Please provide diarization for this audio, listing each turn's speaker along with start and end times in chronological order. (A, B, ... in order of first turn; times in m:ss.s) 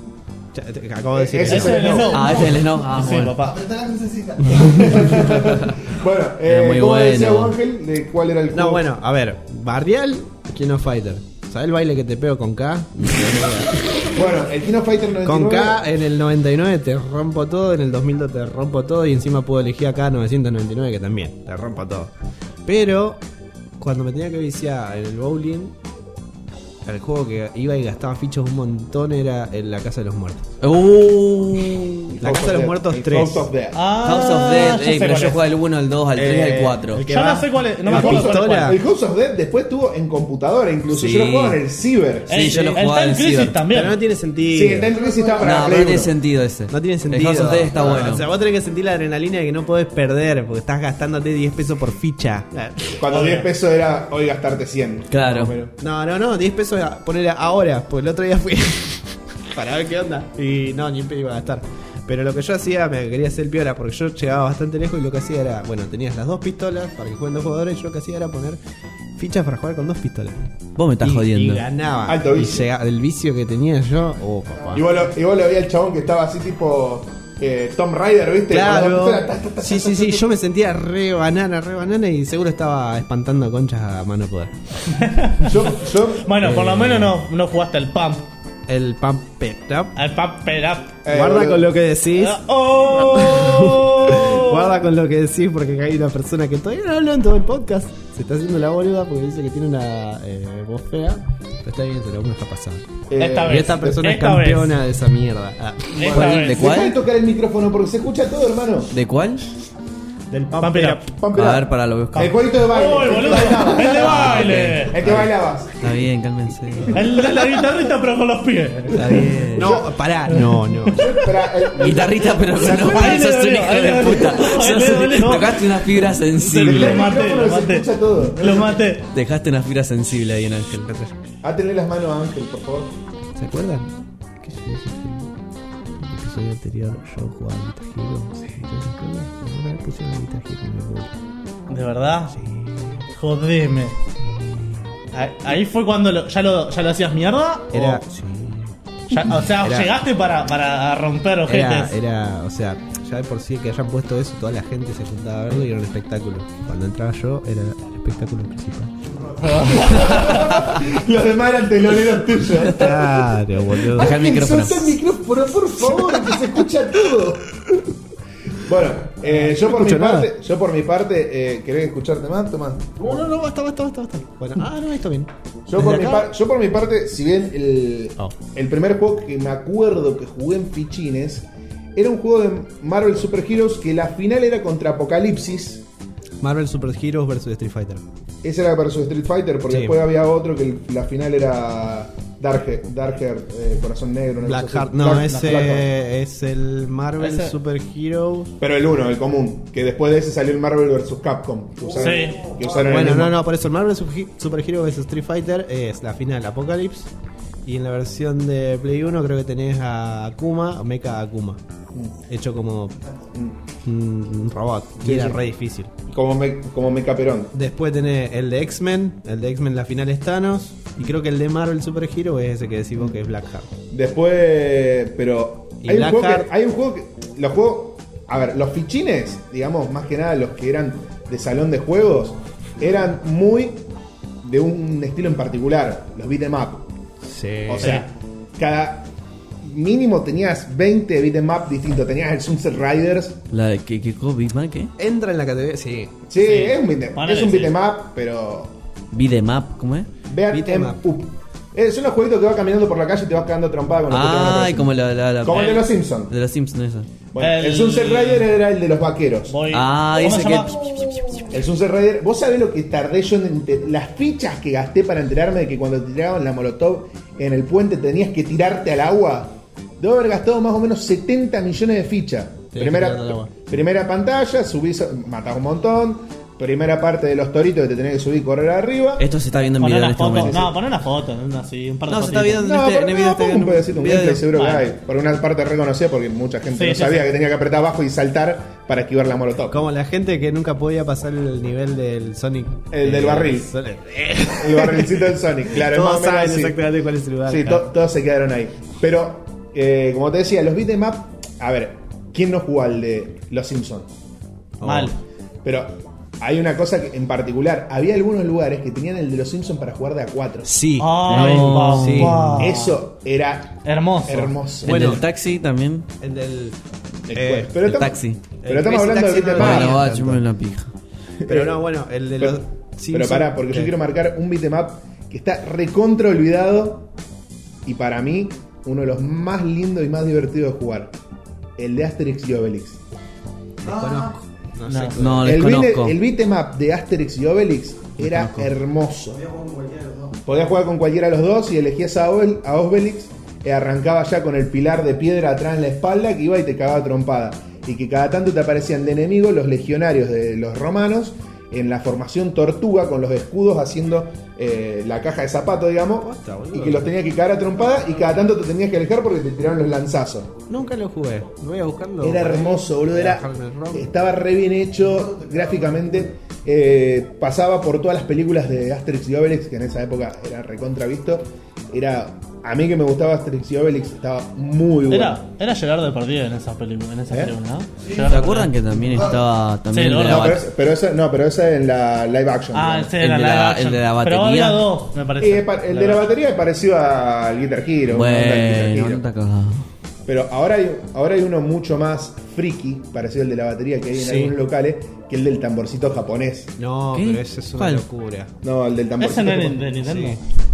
0:00.5-0:02.1 A
0:01.1-0:02.4 B
0:01.4-0:03.6 C
0:02.1-0:03.4 D
0:03.4-0:05.2 E
0:04.6-0:08.8 B
0:05.3-0:05.8 D
0:06.4-0:07.6 D
0:08.5-0:14.2 A
0:14.1-0:15.8 B
0:15.2-0:22.1 A
0:22.6-0:23.2 A
0:23.8-0:25.8 A
0:26.9-0:30.5 A
0:30.6-0:32.2 D
0:32.1-0:33.8 B
0:32.2-0:33.5 A
0:33.7-0:35.4 C
0:34.0-0:37.0 D
0:36.2-0:38.8 A
0:37.1-0:38.8 C
0:37.9-0:42.4 B
0:40.9-0:41.6 D
0:42.3-0:43.6 D
0:42.3-0:44.0 C
0:43.7-0:44.9 A
0:44.5-0:46.1 B
0:44.9-0:45.8 E
0:45.4-0:48.2 D
0:46.7-0:53.1 A
0:47.7-0:48.2 B
0:53.0-0:55.7 B
0:53.1-0:53.5 C
0:55.1-0:55.6 D
0:55.8-1:08.6 A
1:09.2-1:10.5 A
1:10.8-1:11.6 D
1:11.0-1:14.9 A
1:12.0-1:12.7 B
1:14.7-1:20.3 B
1:18.5-1:25.0 A
1:25.0-1:25.5 C
1:25.4-1:26.3 B
1:26.2-1:28.3 C
1:26.4-1:27.2 A
1:28.7-1:29.9 A
1:30.0-1:31.0 C
1:31.0-1:31.7 B
1:31.1-1:42.8 A
1:32.2-1:34.7 C
1:43.1-1:44.1 B
1:43.2-1:44.7 C
1:43.4-1:46.1 A
1:45.9-1:46.7 C
1:46.0-1:48.9 B
1:46.0-1:47.0 D
1:48.9-1:49.5 D
1:50.3-1:51.0 A
1:50.5-1:55.9 B
1:50.6-1:51.0 C
1:51.3-1:52.5 D
1:52.2-1:55.0 C
1:53.8-1:57.1 D
1:56.9-1:59.2 C
1:58.9-1:59.8 D
1:59.0-1:59.9 B
1:59.5-2:01.1 A
2:00.3-2:01.0 C
2:00.9-2:03.2 B
2:01.8-2:07.1 D
2:02.8-2:05.7 C
2:06.4-2:09.1 C
2:06.6-2:08.8 B
2:09.1-2:10.9 D
2:10.9-2:11.1 A
2:11.4-2:12.9 B
2:13.4-2:15.3 A
2:16.0-2:21.1 A
2:21.7-2:22.4 C
2:22.3-2:23.0 A
2:23.1-2:24.0 C
2:24.2-2:25.0 A
2:25.1-2:28.0 C
2:27.7-2:30.0 A
2:29.1-2:32.0 C
2:31.5-2:38.9 A
2:39.4-2:40.3 C
2:39.6-2:43.1 B
2:42.6-2:44.2 A
2:43.8-2:47.8 B
2:43.9-2:45.0 D
2:45.8-2:46.6 A
2:48.5-2:53.0 B
2:49.2-2:50.3 A
2:53.0-2:56.4 A
2:55.7-3:05.8 B
3:06.4-3:08.0 A
3:08.4-3:15.9 B
3:09.7-3:10.1 A
3:14.4-3:18.5 A
3:15.3-3:15.7 C
3:17.2-3:17.6 C
3:18.6-3:23.4 B
3:21.9-3:22.9 E
3:22.0-3:22.4 C
3:22.8-3:27.1 A
3:27.6-3:31.6 A
3:32.3-3:33.0 A
3:33.8-3:35.9 A
3:35.0-3:35.4 B
3:36.1-3:37.5 B
3:37.5-3:43.7 A
3:43.9-3:53.8 B
3:45.8-3:46.5 A
3:54.4-3:56.9 B
3:57.2-3:58.1 A
3:57.7-3:59.1 B
3:59.6-4:03.4 B
4:03.5-4:04.9 D
4:05.0-4:06.7 A
4:06.3-4:08.7 B
4:07.2-4:07.8 C
4:09.1-4:10.1 D
4:10.3-4:14.9 B
4:10.5-4:11.1 A
4:14.1-4:17.1 D
4:15.4-4:16.3 B
4:17.3-4:19.6 B
4:17.4-4:18.5 C
4:19.5-4:20.7 C
4:19.7-4:21.5 D
4:21.5-4:39.3 B
4:32.7-4:33.5 A
4:39.2-4:40.7 D
4:39.8-4:42.6 C
4:42.1-4:44.5 D
4:42.6-4:49.8 B
4:44.5-4:44.9 C
4:46.7-4:47.3 C
4:49.7-4:57.9 A
4:52.9-4:53.7 B
4:54.6-4:56.8 B
4:57.4-5:04.1 B
5:04.8-5:05.2 A
5:04.8-5:05.2 C
5:05.6-5:10.8 B
5:10.6-5:12.6 A
5:11.0-5:13.0 C
5:11.3-5:12.6 D
5:12.6-5:15.2 B
5:13.8-5:14.6 C
5:14.8-5:15.2 A
5:14.8-5:16.1 D
5:16.2-5:16.8 A
5:17.3-5:20.1 B
5:17.3-5:17.8 A
5:17.8-5:18.4 D
5:18.6-5:20.4 A
5:19.6-5:20.9 D
5:21.4-5:21.8 B
5:21.5-5:24.0 A
5:22.4-5:27.1 B
5:27.8-5:31.1 B
5:31.8-5:33.0 B
5:33.8-5:35.6 A
5:33.8-5:34.3 E
5:34.9-5:35.2 C
5:35.2-5:36.2 D
5:35.4-5:39.4 B
5:38.2-5:38.7 D
5:39.3-5:40.4 E
5:40.5-6:00.5 B
5:56.2-5:57.1 A
6:00.7-6:04.1 A
6:02.2-6:15.4 B
6:05.0-6:06.2 E
6:15.1-6:19.0 C
6:18.0-6:18.5 E
6:18.3-6:20.6 D
6:19.1-6:19.4 E
6:19.9-6:20.5 C
6:20.3-6:23.1 B
6:22.7-6:26.3 C
6:23.2-6:24.9 D
6:25.4-6:29.2 B
6:28.1-6:29.9 D
6:30.3-6:36.7 B
6:34.1-6:34.6 A
6:36.8-6:38.5 A
6:37.1-6:38.0 D
6:38.6-6:39.9 B
6:39.2-6:40.4 C
6:40.0-6:40.4 A